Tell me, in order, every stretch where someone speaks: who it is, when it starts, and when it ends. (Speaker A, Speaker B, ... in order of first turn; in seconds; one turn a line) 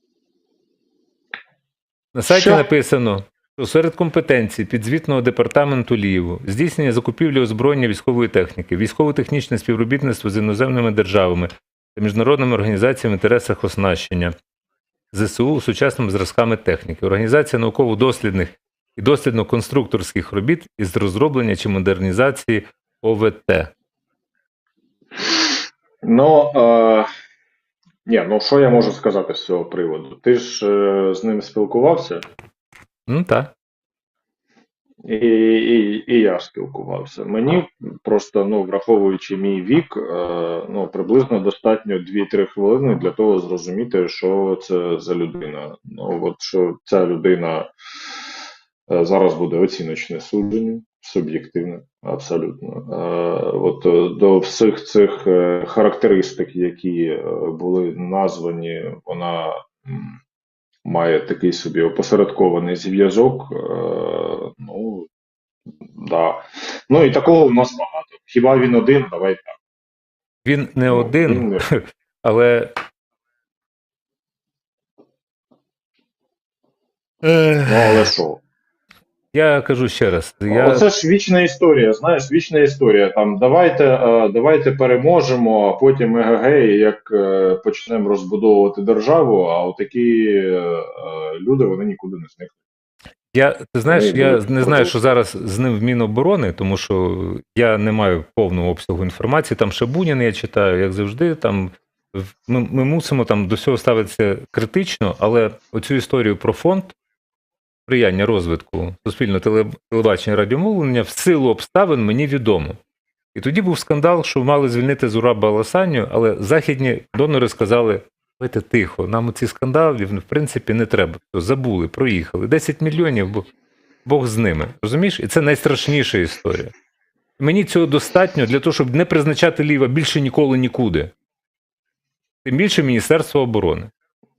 Speaker A: 2.1-14.3
Speaker B: 2.3-2.7
Speaker A: 15.1-23.7
Speaker B: 26.0-27.1
Speaker B: 28.1-32.2
Speaker A: 33.1-33.5
Speaker B: 35.0-48.2
Speaker B: 48.9-60.2
Speaker B: 60.9-65.1
Speaker B: 66.0-69.6
Speaker A: 70.5-72.8
Speaker B: 70.9-71.6
Speaker A: 77.2-78.1
Speaker B: 77.7-78.4
Speaker A: 79.3-80.8
Speaker B: 80.5-92.6
Speaker A: 93.3-107.0
Speaker B: 93.9-94.9
Speaker A: 107.9-112.8
Speaker A: 113.3-123.5
Speaker A: 124.0-126.7
Speaker A: 127.4-131.1
Speaker A: 132.4-133.9